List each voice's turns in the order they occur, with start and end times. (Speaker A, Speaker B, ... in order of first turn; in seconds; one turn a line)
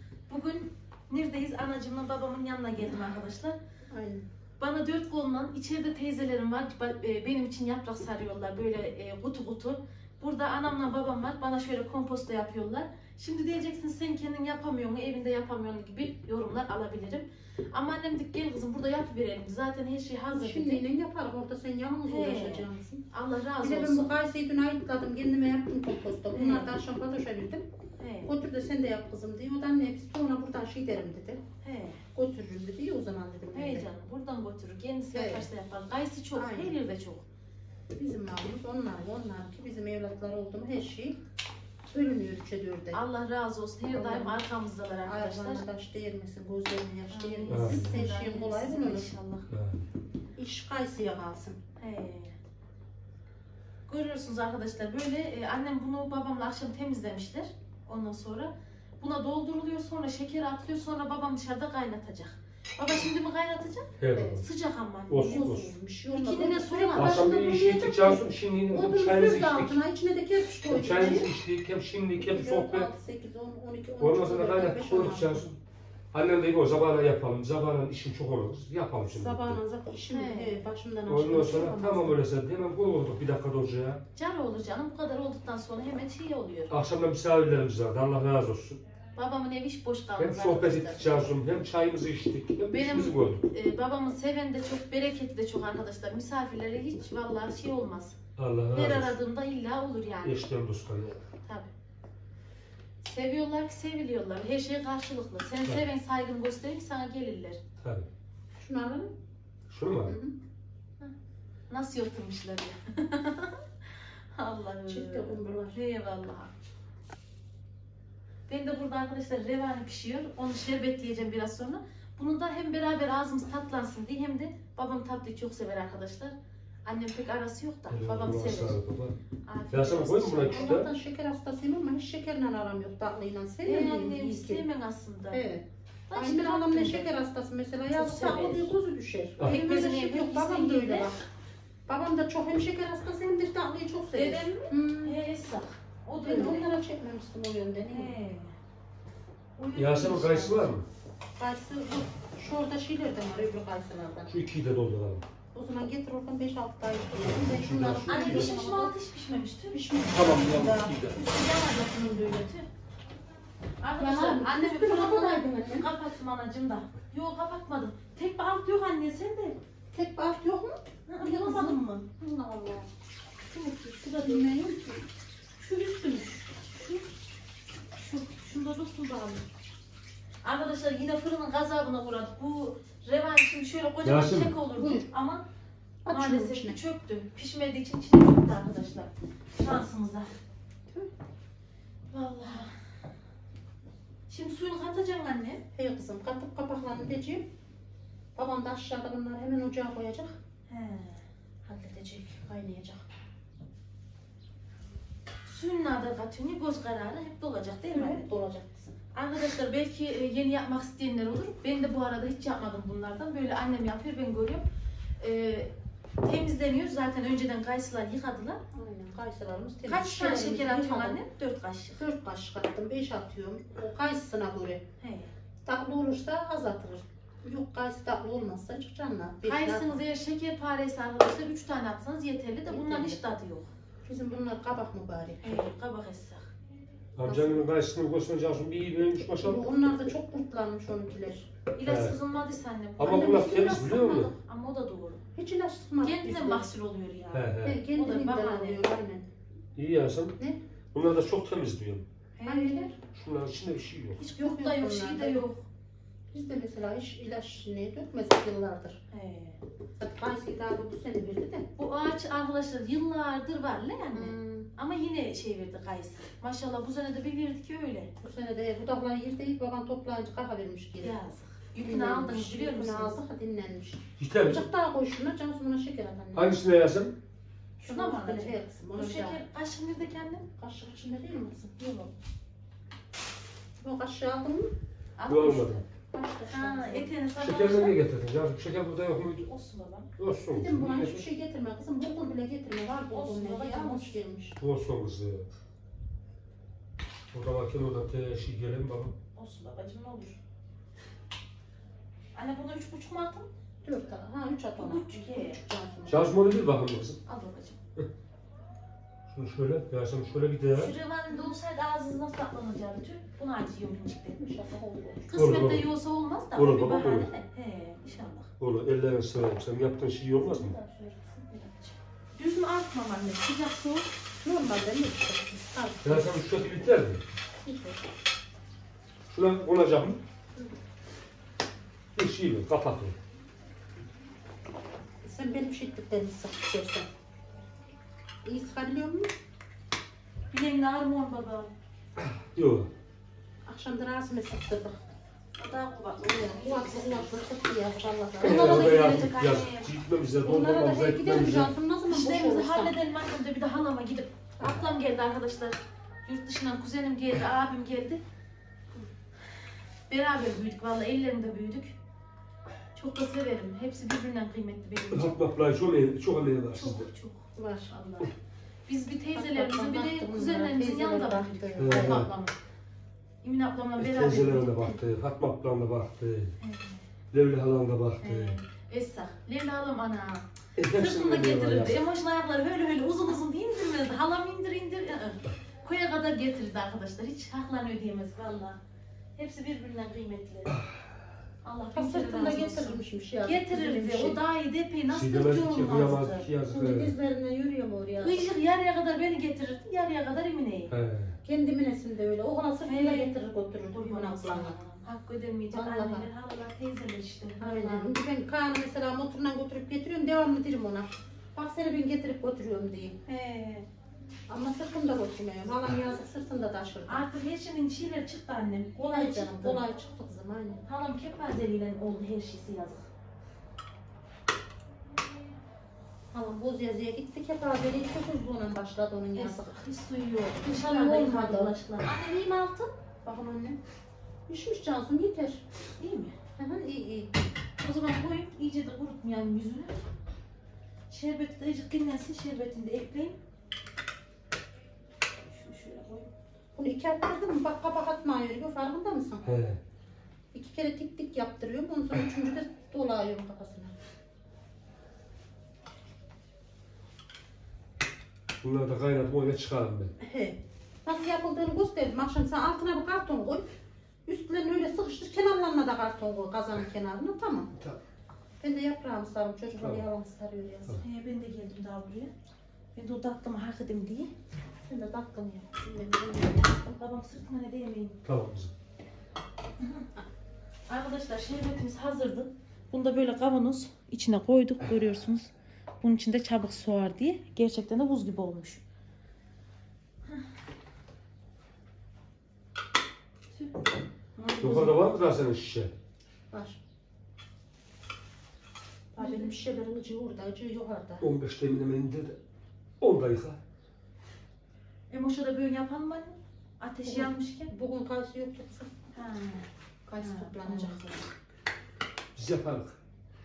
Speaker A: 0.3-3.6
Speaker B: 3.9-4.2
Speaker A: 4.6-20.8
Speaker B: 20.3-23.0
Speaker A: 22.1-24.1
Speaker B: 23.6-27.6
Speaker A: 26.3-26.7
Speaker A: 28.0-28.3
Speaker B: 28.2-31.4
Speaker A: 31.6-32.0
Speaker B: 32.1-33.9
Speaker A: 33.5-37.2
Speaker B: 35.1-35.5
Speaker B: 36.3-36.8
Speaker B: 38.0-41.2
Speaker B: 41.9-43.0
Speaker A: 42.9-45.6
Speaker B: 43.9-44.4
Speaker B: 45.0-49.1
Speaker A: 47.1-49.5
Speaker C: 47.5-48.0
Speaker C: 49.5-49.8
Speaker B: 50.4-51.6
Speaker A: 51.8-52.4
Speaker A: 53.9-67.4
Speaker C: 64.0-64.4
Speaker B: 64.1-64.4
Speaker C: 65.1-65.7
Speaker B: 65.2-71.3
Speaker C: 66.9-69.7
Speaker C: 70.7-72.9
Speaker B: 72.2-75.6
Speaker C: 74.0-75.5
Speaker C: 76.1-79.6
Speaker B: 79.1-82.2
Speaker A: 80.1-80.6
Speaker C: 81.1-84.0
Speaker A: 84.1-86.7
Speaker C: 86.7-88.8
Speaker A: 89.2-91.2
Speaker C: 90.2-93.5
Speaker A: 92.7-98.2
Speaker C: 98.4-99.1
Speaker A: 98.7-100.4
Speaker C: 100.2-101.2
Speaker A: 101.4-101.7
Speaker A: 103.0-107.6
Speaker C: 107.8-108.1
Speaker B: 108.5-109.1
Speaker C: 109.7-110.1
Speaker B: 110.0-110.3
Speaker A: 111.7-113.7
Speaker A: 114.3-116.5
Speaker B: 114.9-115.8
Speaker A: 118.5-128.8
Speaker C: 127.9-129.2
Speaker A: 129.4-130.8
Speaker C: 129.7-130.9
Speaker B: 130.5-134.6
Speaker A: 133.6-135.4
Speaker B: 135.3-141.2
Speaker A: 136.1-137.1
Speaker A: 137.9-138.7
Speaker C: 139.4-139.6
Speaker A: 139.4-141.1
Speaker B: 141.9-145.2
Speaker A: 144.1-146.8
Speaker B: 146.2-148.2
Speaker A: 147.9-148.5
Speaker A: 149.6-150.7
Speaker C: 149.7-150.8
Speaker B: 151.4-154.3
Speaker C: 154.3-155.2
Speaker B: 155.5-158.9
Speaker C: 157.2-158.6
Speaker A: 158.1-160.1
Speaker B: 159.7-160.9
Speaker C: 160.1-161.2
Speaker A: 161.1-162.7
Speaker A: 163.8-169.6
Speaker B: 164.0-165.9
Speaker B: 169.9-172.9
Speaker A: 171.1-172.1
Speaker B: 173.5-175.1
Speaker A: 173.6-174.4
Speaker A: 175.6-177.1
Speaker A: 177.9-179.4
Speaker A: 180.4-185.4
Speaker C: 184.0-184.5
Speaker B: 184.8-185.1
Speaker B: 186.0-186.8
Speaker A: 186.1-190.3
Speaker A: 192.1-192.8
Speaker A: 194.3-195.6
Speaker B: 195.7-197.5
Speaker B: 198.3-200.4
Speaker A: 200.7-202.4
Speaker B: 202.4-203.0
Speaker A: 205.4-208.2
Speaker B: 207.9-208.9
Speaker A: 209.1-214.6
Speaker A: 215.2-215.7
Speaker A: 216.2-218.6
Speaker B: 218.7-221.2
Speaker A: 219.8-222.0
Speaker B: 221.9-224.8
Speaker A: 225.0-225.3
Speaker B: 225.6-230.0
Speaker A: 229.4-233.7
Speaker B: 232.7-233.2
Speaker B: 234.0-235.6
Speaker A: 235.4-236.5
Speaker C: 237.1-240.0
Speaker B: 237.2-237.7
Speaker B: 239.4-241.5
Speaker A: 241.7-245.2
Speaker C: 241.8-242.2
Speaker C: 243.0-244.3
Speaker B: 243.0-244.0
Speaker B: 245.3-246.7
Speaker A: 246.0-248.9
Speaker C: 247.3-247.8
Speaker B: 247.6-249.3
Speaker C: 249.8-250.3
Speaker C: 250.9-252.0
Speaker A: 252.3-252.9
Speaker B: 252.4-252.9
Speaker C: 253.0-254.2
Speaker A: 254.2-255.7
Speaker B: 254.3-255.4
Speaker B: 256.3-259.0
Speaker A: 259.1-259.6
Speaker B: 260.0-261.7
Speaker A: 261.8-268.1
Speaker B: 264.1-264.7
Speaker B: 268.2-271.2
Speaker A: 271.0-273.2
Speaker B: 271.8-276.6
Speaker C: 274.2-274.7
Speaker C: 276.3-277.1
Speaker A: 277.8-280.5
Speaker B: 277.8-279.4
Speaker B: 280.6-282.1
Speaker B: 283.8-284.7
Speaker A: 285.2-285.8
Speaker C: 285.3-285.8
Speaker B: 286.1-287.1
Speaker A: 286.5-288.0
Speaker C: 287.4-289.5
Speaker A: 289.4-290.1
Speaker C: 290.2-291.2
Speaker B: 290.5-294.6
Speaker A: 292.9-294.2
Speaker C: 294.6-295.5
Speaker C: 297.3-299.1
Speaker A: 299.3-300.4
Speaker A: 302.3-303.5
Speaker B: 303.8-306.2
Speaker A: 304.8-305.6
Speaker C: 306.1-307.2
Speaker A: 307.2-307.8
Speaker C: 309.3-310.9
Speaker A: 310.8-314.4
Speaker B: 314.4-315.4
Speaker A: 315.3-318.5
Speaker C: 315.4-315.9
Speaker C: 316.5-317.3
Speaker C: 318.6-320.8
Speaker B: 320.5-321.9
Speaker A: 322.3-324.1
Speaker B: 324.4-326.4
Speaker C: 326.0-327.2
Speaker B: 327.6-328.0
Speaker C: 329.3-330.2
Speaker C: 332.1-333.2
Speaker B: 335.2-337.1
Speaker B: 338.4-339.3
Speaker A: 340.5-341.7
Speaker C: 342.1-342.9
Speaker B: 343.6-345.0
Speaker A: 345.6-347.4
Speaker B: 346.2-349.1
Speaker A: 348.4-349.9
Speaker C: 348.4-351.7
Speaker B: 350.4-352.9
Speaker A: 352.1-358.2
Speaker A: 360.1-361.9
Speaker A: 362.9-365.4
Speaker C: 365.1-367.1
Speaker A: 366.7-368.3
Speaker B: 367.5-367.9
Speaker A: 368.9-372.5
Speaker B: 369.3-372.3
Speaker C: 371.8-372.3
Speaker A: 373.4-374.9
Speaker C: 374.0-376.5
Speaker A: 376.6-377.0
Speaker C: 377.3-378.6
Speaker A: 378.2-388.8
Speaker C: 380.8-382.0
Speaker A: 389.4-390.8
Speaker A: 391.6-396.5
Speaker B: 391.9-394.4
Speaker C: 395.1-397.1
Speaker B: 396.7-398.5
Speaker A: 398.2-400.9
Speaker C: 400.9-401.4
Speaker B: 401.4-404.8
Speaker A: 402.8-408.1
Speaker B: 405.7-406.3
Speaker B: 407.6-413.2
Speaker A: 413.2-413.9
Speaker B: 414.5-417.2
Speaker A: 417.1-419.9
Speaker B: 419.0-420.8
Speaker A: 420.9-423.1
Speaker B: 426.3-429.8
Speaker A: 429.3-432.9
Speaker B: 430.6-431.7
Speaker B: 433.2-433.8
Speaker B: 434.5-435.6
Speaker A: 436.0-436.4
Speaker B: 436.6-437.3
Speaker A: 437.8-440.0
Speaker A: 441.1-443.4
Speaker A: 445.5-446.3
Speaker B: 446.7-449.6
Speaker C: 449.4-449.8
Speaker B: 450.5-453.9
Speaker C: 458.6-460.1
Speaker B: 460.2-463.6
Speaker B: 464.2-467.7
Speaker B: 468.6-471.0
Speaker C: 469.8-470.0
Speaker A: 471.0-472.3
Speaker A: 472.9-474.3
Speaker B: 474.8-476.9
Speaker A: 476.9-478.2
Speaker C: 478.2-478.7
Speaker A: 479.8-480.1
Speaker A: 480.9-485.5
Speaker A: 486.0-488.8
Speaker A: 493.5-493.8
Speaker A: 494.4-495.0
Speaker C: 494.6-495.9
Speaker B: 496.5-496.8
Speaker B: 499.1-501.2
Speaker A: 499.2-499.5
Speaker C: 501.2-502.4
Speaker C: 503.0-503.6
Speaker A: 505.1-507.7
Speaker B: 507.0-508.9
Speaker A: 509.1-509.7
Speaker B: 510.1-511.1
Speaker A: 510.2-511.2
Speaker C: 512.4-513.0